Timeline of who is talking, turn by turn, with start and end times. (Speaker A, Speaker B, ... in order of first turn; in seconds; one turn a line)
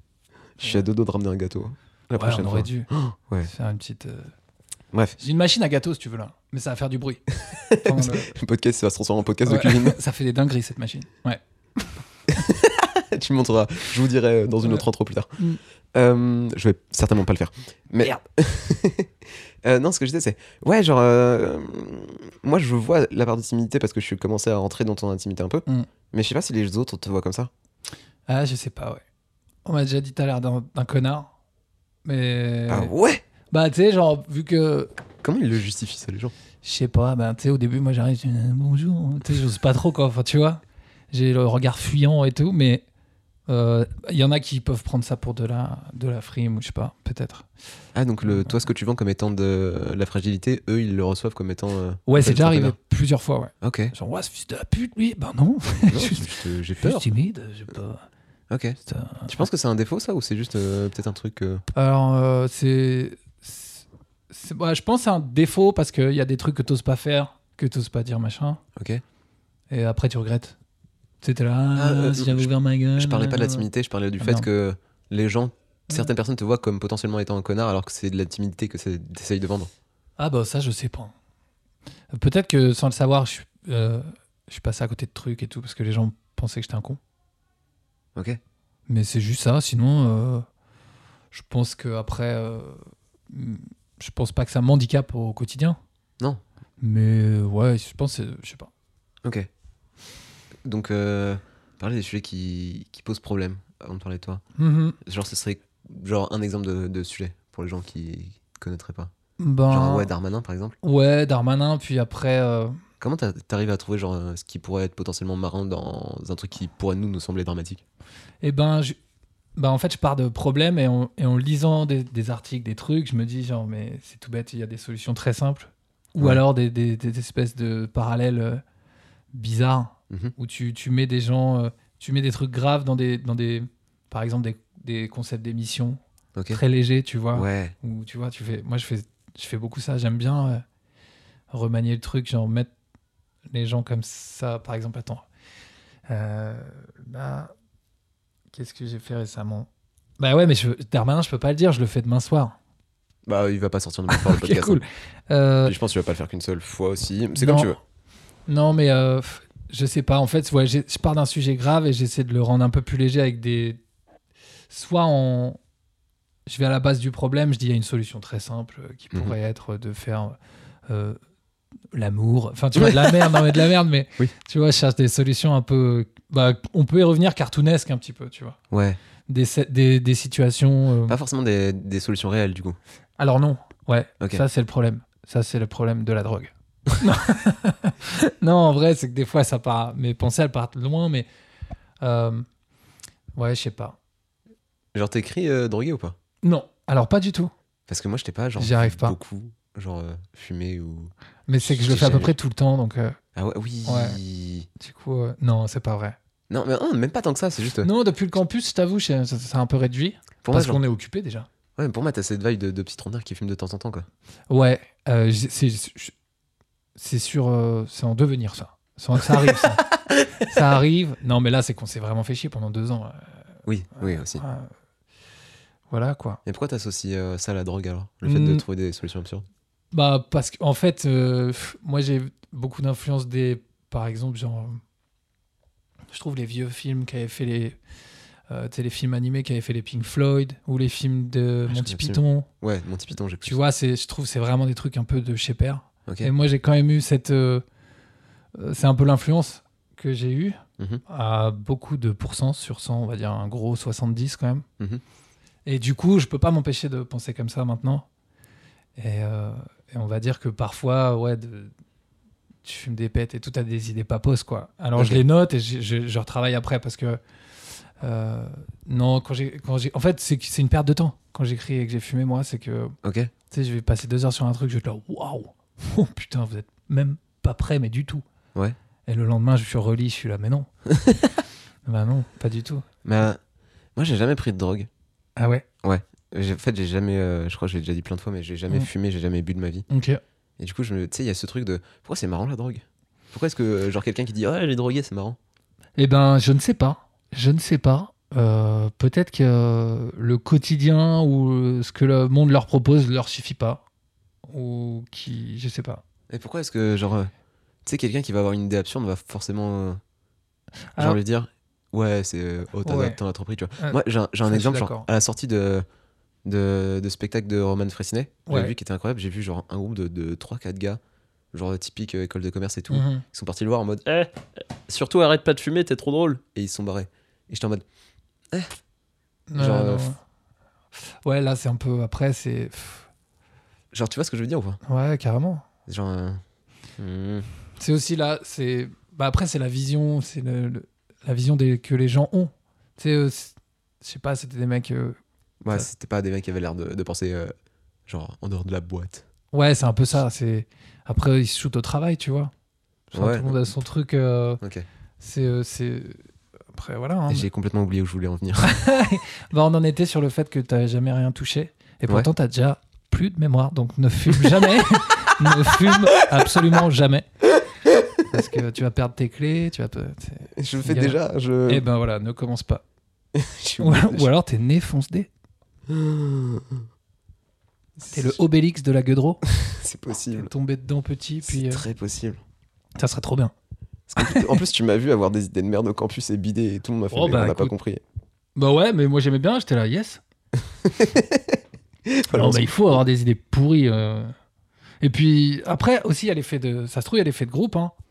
Speaker A: 0.6-3.5
Speaker B: 2.2-2.9
Speaker B: 3.4-4.3
Speaker B: 5.2-8.3
Speaker A: 7.5-10.0
Speaker B: 9.4-11.9
Speaker A: 12.3-15.4
Speaker A: 15.9-27.5
Speaker B: 28.3-29.0
Speaker B: 29.6-31.3
Speaker B: 32.0-32.9
Speaker A: 32.7-33.2
Speaker B: 33.5-34.9
Speaker A: 35.2-36.3
Speaker B: 36.6-40.6
Speaker B: 41.1-42.9
Speaker B: 43.5-47.5
Speaker A: 48.0-52.8
Speaker B: 48.2-48.5
Speaker B: 52.1-58.1
Speaker A: 53.6-53.9
Speaker A: 55.9-57.0
Speaker A: 58.5-61.6
Speaker B: 58.9-59.5
Speaker B: 61.7-68.6
Speaker A: 68.8-69.0
Speaker B: 69.7-70.6
Speaker B: 71.2-73.7
Speaker A: 71.8-79.7
Speaker B: 74.2-74.5
Speaker B: 80.2-81.1
Speaker B: 82.1-87.0
Speaker B: 88.9-90.5
Speaker B: 91.3-95.8
Speaker B: 96.8-98.7
Speaker A: 99.2-99.5
Speaker A: 100.7-104.4
Speaker B: 104.6-105.0
Speaker A: 105.0-109.1
Speaker B: 109.4-110.1
Speaker A: 109.7-110.8
Speaker B: 110.8-112.8
Speaker A: 113.0-117.8
Speaker B: 118.4-119.0
Speaker B: 119.6-128.6
Speaker B: 129.3-136.0
Speaker A: 136.3-136.6
Speaker B: 136.5-140.6
Speaker A: 137.3-137.8
Speaker B: 141.5-142.7
Speaker B: 143.5-145.2
Speaker B: 146.1-147.5
Speaker B: 148.5-149.7
Speaker B: 150.2-152.6
Speaker A: 153.3-154.8
Speaker B: 154.1-155.8
Speaker A: 155.7-157.8
Speaker B: 157.4-157.8
Speaker B: 158.5-163.8
Speaker B: 164.7-165.6
Speaker B: 166.5-170.4
Speaker B: 170.9-171.2
Speaker B: 171.9-178.6
Speaker A: 172.8-173.5
Speaker A: 178.7-179.0
Speaker B: 179.3-181.2
Speaker A: 181.1-182.8
Speaker B: 183.2-191.3
Speaker B: 192.0-192.5
Speaker B: 193.4-194.0
Speaker A: 194.9-196.2
Speaker B: 196.4-197.5
Speaker A: 197.9-202.3
Speaker B: 198.6-199.2
Speaker B: 201.5-203.2
Speaker A: 203.4-204.7
Speaker B: 203.9-204.2
Speaker B: 204.8-206.2
Speaker A: 206.5-207.9
Speaker B: 207.8-211.5
Speaker A: 210.4-210.8
Speaker A: 211.8-214.1
Speaker B: 214.5-216.1
Speaker B: 217.0-219.9
Speaker B: 220.4-223.4
Speaker A: 223.7-224.4
Speaker B: 223.9-224.7
Speaker B: 225.9-226.4
Speaker A: 226.4-229.4
Speaker B: 228.2-228.6
Speaker B: 229.9-234.8
Speaker B: 236.1-237.8
Speaker B: 238.5-242.5
Speaker A: 241.7-243.6
Speaker B: 243.4-247.6
Speaker B: 248.6-254.7
Speaker B: 255.7-258.1
Speaker B: 259.0-261.7
Speaker B: 262.6-267.2
Speaker B: 268.0-272.9
Speaker A: 273.0-273.3
Speaker B: 273.5-278.2
Speaker B: 279.1-280.7
Speaker A: 281.0-281.3
Speaker B: 281.9-282.9
Speaker A: 283.0-283.4
Speaker A: 284.0-284.9
Speaker B: 285.4-285.6
Speaker A: 285.8-289.9
Speaker B: 289.9-290.2
Speaker A: 290.6-295.4
Speaker B: 296.0-303.8
Speaker B: 304.5-306.0
Speaker A: 306.3-307.3
Speaker A: 307.9-310.0
Speaker A: 311.0-315.9
Speaker B: 312.8-313.2
Speaker B: 313.8-315.1
Speaker A: 316.5-321.0
Speaker B: 318.5-318.7
Speaker A: 321.5-327.8
Speaker B: 322.9-323.2
Speaker B: 329.5-330.2
Speaker A: 329.6-330.1
Speaker B: 331.2-333.1
Speaker A: 333.9-334.8
Speaker B: 334.9-335.6
Speaker A: 335.9-336.4
Speaker A: 337.0-337.5
Speaker B: 337.8-345.2
Speaker A: 345.6-347.5
Speaker A: 348.1-349.3
Speaker B: 349.5-352.5
Speaker B: 353.1-354.6
Speaker A: 353.1-353.6
Speaker A: 354.6-354.9
Speaker B: 355.2-357.5
Speaker A: 357.3-358.7
Speaker B: 358.6-367.3
Speaker B: 368.3-372.8
Speaker A: 370.6-371.9
Speaker A: 373.3-374.3
Speaker B: 373.8-375.3
Speaker A: 375.9-376.9
Speaker A: 378.0-378.4
Speaker B: 378.1-379.4
Speaker A: 379.5-380.5
Speaker B: 380.3-381.9
Speaker A: 381.5-382.4
Speaker B: 383.0-383.5
Speaker A: 384.1-388.0
Speaker B: 384.2-384.6
Speaker B: 387.1-387.7
Speaker B: 388.6-390.2
Speaker A: 390.8-393.0
Speaker B: 392.3-394.3
Speaker B: 395.0-397.9